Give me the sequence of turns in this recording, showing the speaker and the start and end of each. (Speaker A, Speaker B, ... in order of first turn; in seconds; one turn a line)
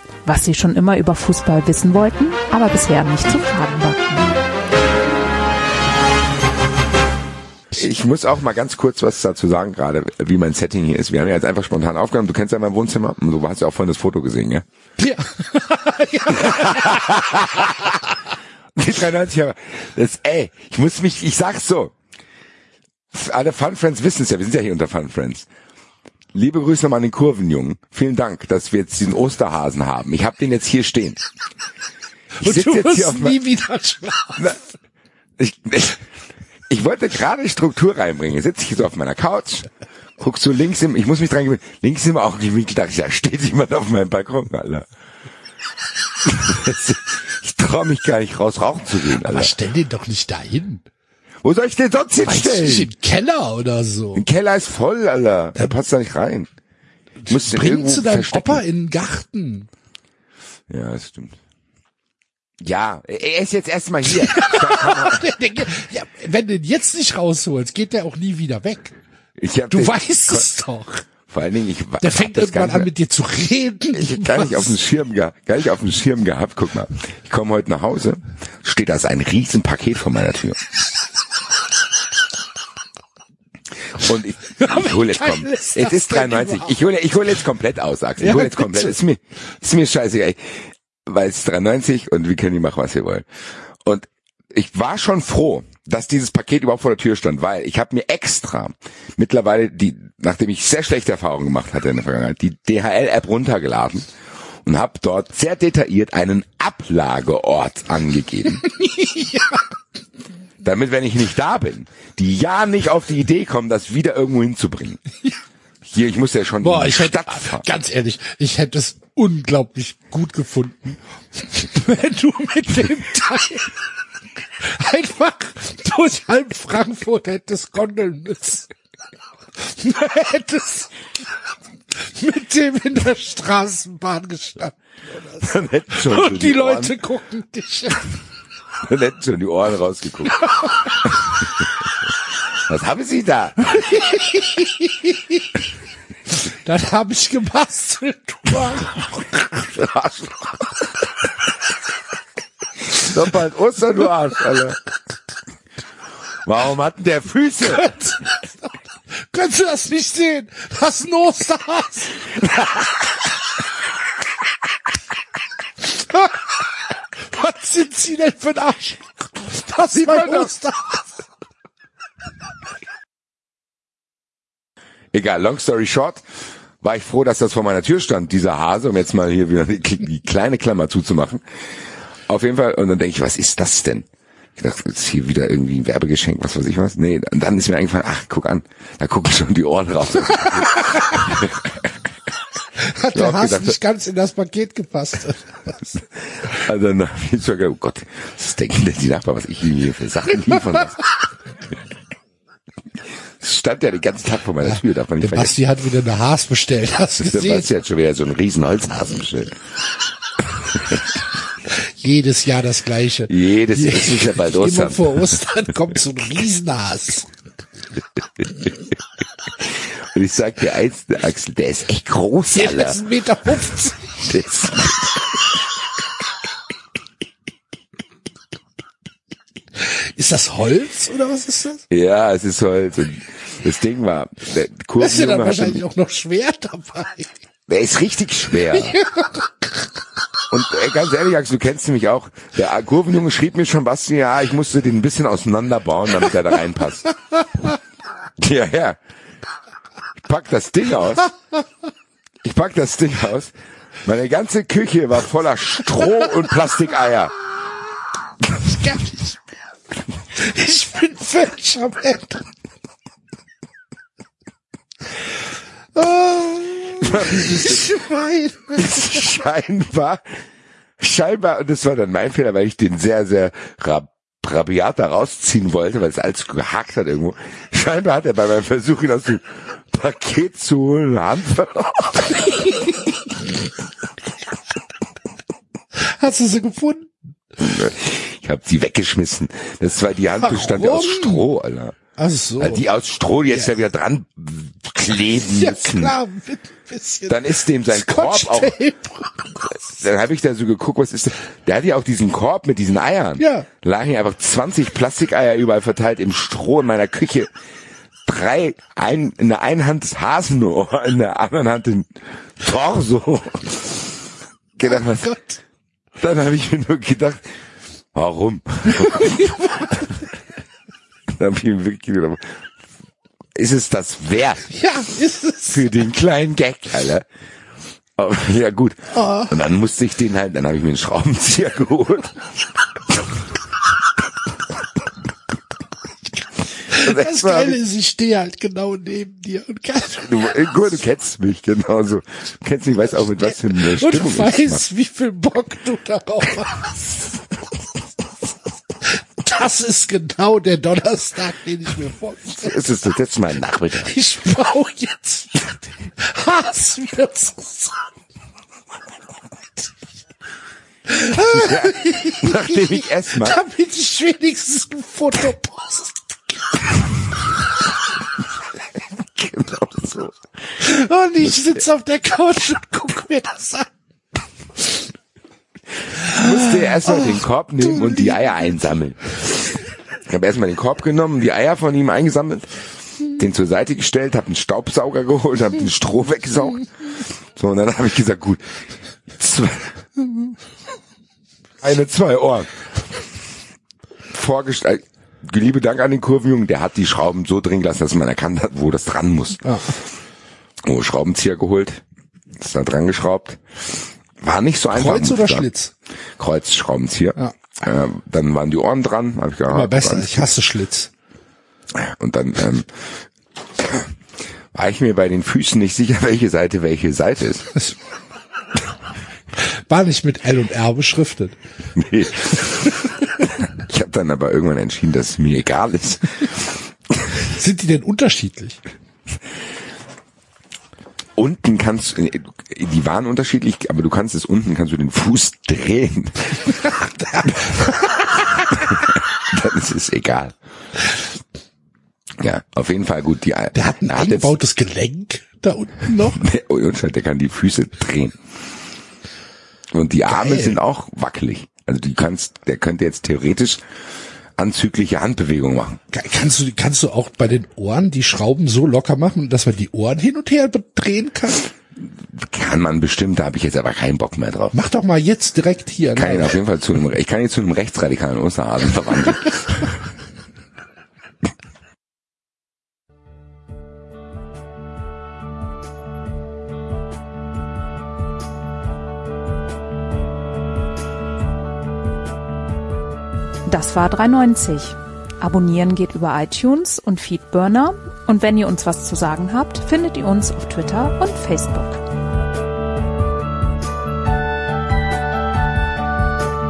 Speaker A: 0.2-4.3
Speaker B: 7.7-14.6
Speaker C: 15.0-18.0
Speaker B: 16.5-17.4
Speaker B: 18.8-21.9
Speaker B: 23.1-25.5
Speaker B: 26.3-31.2
Speaker C: 32.4-34.7
Speaker B: 32.4-33.4
Speaker B: 35.4-36.0
Speaker B: 36.7-44.9
Speaker B: 46.2-49.5
Speaker C: 49.1-50.8
Speaker B: 51.4-52.9
Speaker C: 52.2-54.2
Speaker B: 54.1-56.5
Speaker C: 57.2-59.7
Speaker B: 57.3-58.6
Speaker B: 60.7-61.4
Speaker B: 62.6-65.3
Speaker C: 64.1-68.9
Speaker B: 69.4-70.5
Speaker C: 69.7-71.0
Speaker B: 71.3-72.9
Speaker C: 72.0-74.7
Speaker B: 73.9-80.6
Speaker B: 83.9-93.2
Speaker C: 84.5-86.8
Speaker C: 88.2-89.0
Speaker B: 93.8-104.1
Speaker B: 104.6-108.6
Speaker C: 108.5-109.6
Speaker B: 110.6-115.0
Speaker B: 115.9-117.7
Speaker C: 116.6-123.7
Speaker C: 124.6-128.7
Speaker C: 129.6-130.9
Speaker C: 132.0-138.1
Speaker B: 135.4-136.9
Speaker B: 138.8-140.4
Speaker C: 140.4-140.9
Speaker B: 142.7-144.0
Speaker C: 143.9-145.1
Speaker C: 146.3-149.6
Speaker B: 149.7-150.7
Speaker B: 152.9-154.8
Speaker B: 156.4-157.9
Speaker C: 157.8-162.8
Speaker C: 165.8-166.5
Speaker C: 167.2-171.2
Speaker B: 169.9-170.5
Speaker B: 175.1-176.2
Speaker B: 176.8-181.4
Speaker B: 182.3-191.7
Speaker C: 192.8-196.0
Speaker B: 193.1-193.8
Speaker B: 196.3-201.0
Speaker B: 203.4-205.5
Speaker C: 204.6-207.7
Speaker B: 207.2-209.6
Speaker C: 211.6-217.3
Speaker B: 213.3-215.4
Speaker B: 219.6-223.0
Speaker C: 222.5-224.3
Speaker B: 224.3-225.2
Speaker C: 229.8-231.8
Speaker B: 231.9-235.8
Speaker C: 235.0-237.4
Speaker B: 237.7-239.0
Speaker C: 238.7-239.7
Speaker B: 240.5-247.1
Speaker B: 248.4-249.0
Speaker B: 250.2-251.3
Speaker B: 252.4-253.5
Speaker B: 254.0-257.3
Speaker C: 258.6-259.3
Speaker C: 260.3-262.5
Speaker C: 265.9-269.2
Speaker B: 267.0-267.9
Speaker B: 268.7-270.2
Speaker B: 271.0-282.8
Speaker C: 285.9-287.1
Speaker B: 287.6-292.0
Speaker C: 290.4-291.4
Speaker C: 292.1-292.8
Speaker B: 292.6-296.1
Speaker C: 295.5-299.7
Speaker B: 297.3-298.8
Speaker B: 299.7-307.5
Speaker C: 303.4-303.7
Speaker B: 308.2-314.1
Speaker B: 314.8-315.3
Speaker C: 314.8-315.6
Speaker B: 316.2-317.4
Speaker B: 318.1-320.0
Speaker C: 318.9-320.0
Speaker B: 321.4-322.6
Speaker B: 323.5-324.7
Speaker C: 324.7-325.9
Speaker B: 325.7-327.2
Speaker B: 328.2-332.5
Speaker C: 329.1-329.5
Speaker C: 336.9-340.6
Speaker B: 337.0-337.8
Speaker B: 340.2-344.8
Speaker C: 343.5-347.3
Speaker C: 349.0-352.7
Speaker B: 352.6-354.1
Speaker C: 354.0-357.9
Speaker C: 361.1-362.8
Speaker B: 361.5-363.6
Speaker C: 363.3-366.2
Speaker B: 369.3-370.4
Speaker C: 370.8-373.9
Speaker B: 376.1-388.8
Speaker B: 389.3-390.0
Speaker B: 391.8-392.7
Speaker B: 394.3-399.8
Speaker C: 399.6-399.9
Speaker B: 400.8-402.0
Speaker B: 402.6-405.7
Speaker C: 404.9-405.9
Speaker B: 406.4-410.5
Speaker C: 409.7-411.1
Speaker B: 411.9-413.2
Speaker B: 413.8-414.1
Speaker B: 414.7-417.7
Speaker C: 419.5-421.5
Speaker B: 421.9-426.7
Speaker C: 427.4-428.8
Speaker B: 431.4-436.6
Speaker C: 436.6-438.8
Speaker B: 438.8-440.5
Speaker B: 442.4-444.6
Speaker C: 443.7-446.4
Speaker B: 446.2-448.4
Speaker B: 449.9-453.8
Speaker C: 450.3-450.8
Speaker B: 454.6-456.0
Speaker C: 456.1-461.7
Speaker B: 462.0-464.7
Speaker C: 464.7-466.6
Speaker B: 466.1-470.0
Speaker A: 483.6-492.0